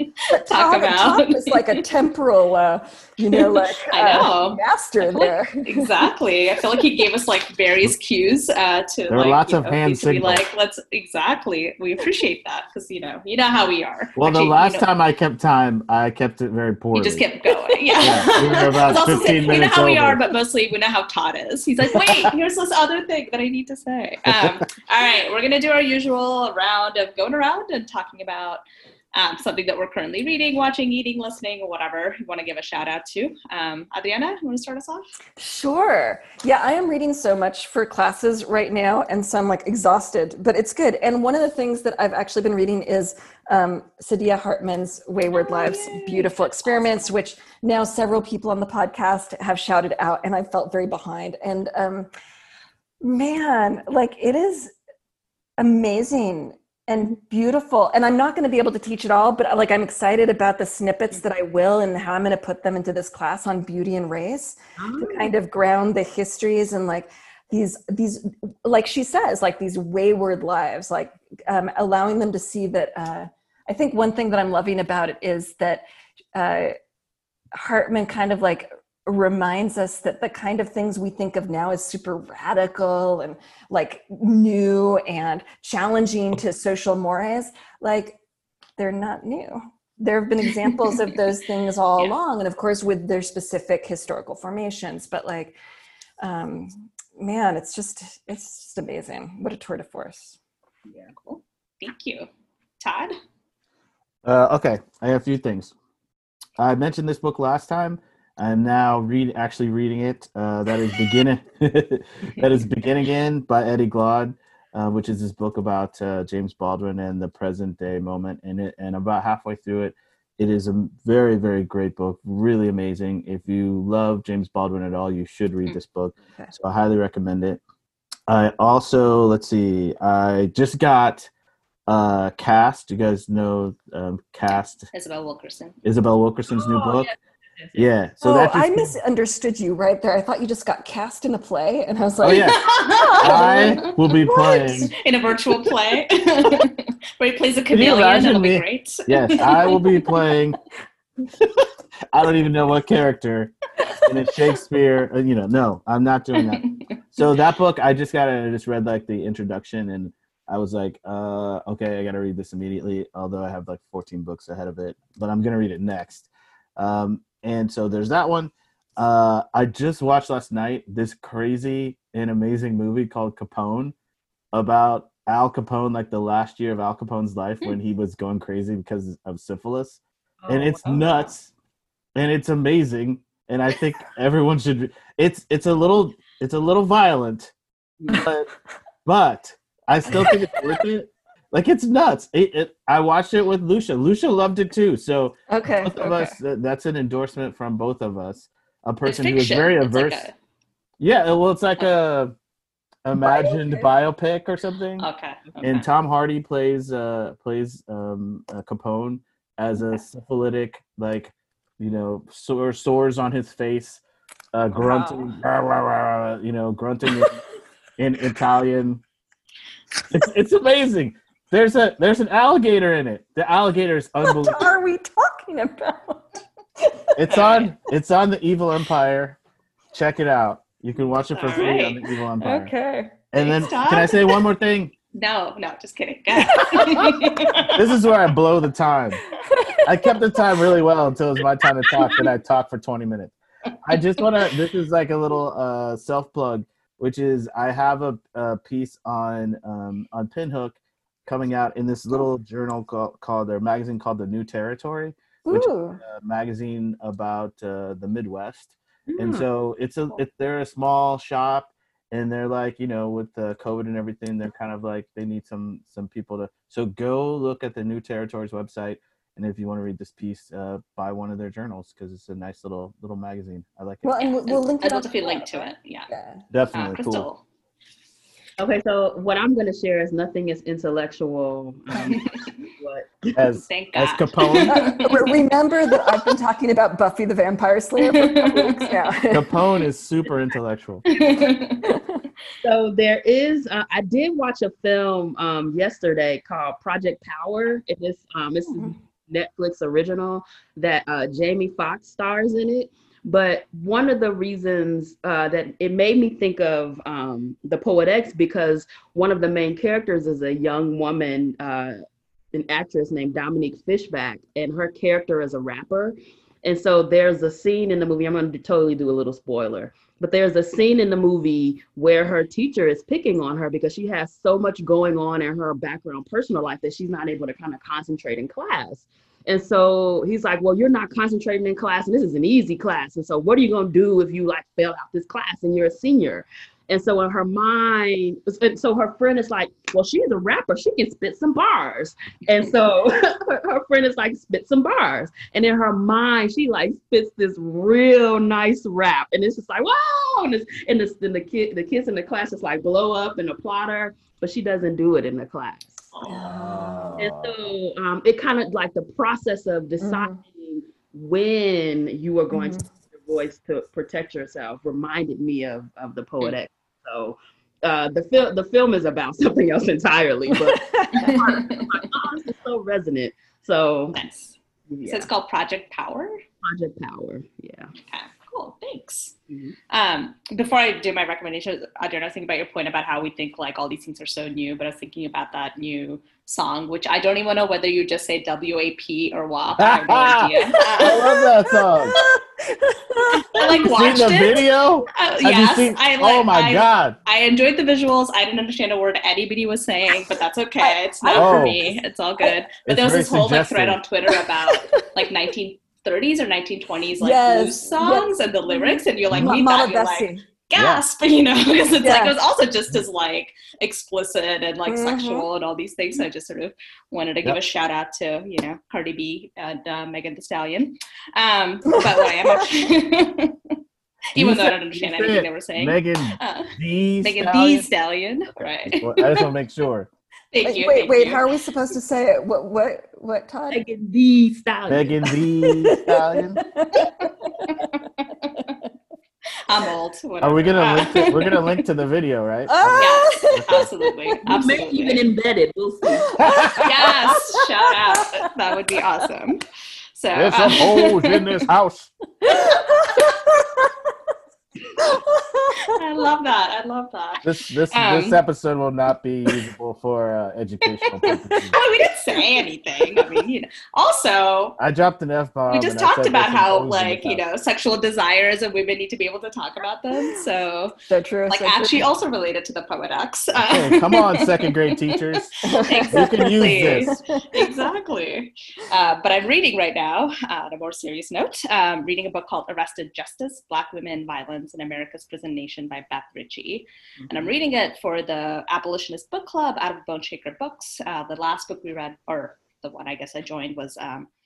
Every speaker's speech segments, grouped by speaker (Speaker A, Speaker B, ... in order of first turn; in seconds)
Speaker A: 0.3-5.9, 35.4-52.1, 53.0-54.7, 55.6-75.8, 76.3-76.7, 77.5-88.2, 88.8-95.6, 96.2-100.4, 138.2-144.9, 195.5-196.3, 203.2-203.8, 224.2-227.1, 232.4-233.1, 236.5-237.5, 239.4-240.2, 255.4-256.0, 274.0-276.4, 284.7-289.5, 291.8-292.2, 298.7-298.9, 356.2-357.1, 360.0-360.4, 362.5-362.8, 370.7-371.4, 391.0-393.8, 400.8-402.6, 404.3-405.1, 407.2-410.4, 412.0-412.3, 414.9-415.5, 421.9-422.6, 430.6-433.8, 435.9-437.9, 442.7-444.1, 446.2-447.4, 452.4-453.9, 455.0-456.0, 471.1-472.1, 475.6-477.7
Speaker B: 0.5-1.8, 3.4-14.8, 16.9-28.6, 29.1-35.1, 45.3-47.1, 101.1-102.3, 102.8-103.1, 134.5-135.8, 142.4-143.8, 144.9-149.8, 156.3-156.8, 199.0-200.3, 205.0-205.8, 227.3-227.7, 231.3-232.0, 233.3-234.4, 235.1-237.8, 274.2-276.1, 276.7-277.4, 282.1-282.4, 283.6-285.4, 288.1-288.9, 291.1-292.0, 371.1-372.0, 374.1-376.4, 378.1-379.3, 379.9-391.4, 393.5-423.7, 424.3-429.5, 430.5-431.4, 439.7-441.6, 443.0-445.3, 446.8-449.6, 450.1-451.4, 455.9-458.4, 461.7-464.8, 465.7-470.9, 471.5-494.3
Speaker C: 9.1-10.4, 14.2-17.2, 18.0-20.2, 21.9-22.3, 24.2-24.6, 104.2-105.7, 106.6-127.6, 128.3-131.3, 131.9-134.9, 135.8-137.1, 137.7-138.9, 142.2-144.9, 147.7-150.6, 151.4-173.9, 174.5-181.5, 182.2-187.5, 188.1-188.5, 189.1-200.3, 201.0-202.3, 203.0-205.1, 205.6-214.0, 214.5-217.4, 218.0-219.0, 220.1-224.7, 227.2-229.4, 229.9-232.7, 233.3-234.9, 237.7-239.2, 239.8-274.2, 276.5-277.3, 283.3-284.8, 289.3-291.0, 356.4-357.6, 389.8-392.2, 393.6-397.1, 401.3-401.8, 402.9-404.0, 409.3-409.6, 410.7-411.0, 424.4-427.9, 428.9-430.1, 434.9-436.6, 440.4-443.9, 446.4-447.4, 450.3-452.1, 457.4-461.8, 464.8-467.4, 473.6-477.1
Speaker D: 64.8-65.3, 136.5-137.9, 180.4-181.2, 188.0-188.3, 214.8-215.4, 259.1-259.4, 278.6-283.2, 292.6-312.0, 312.5-356.0, 357.2-374.2, 374.9-375.3, 376.6-377.9, 433.7-435.3, 444.4-446.3, 487.2-487.5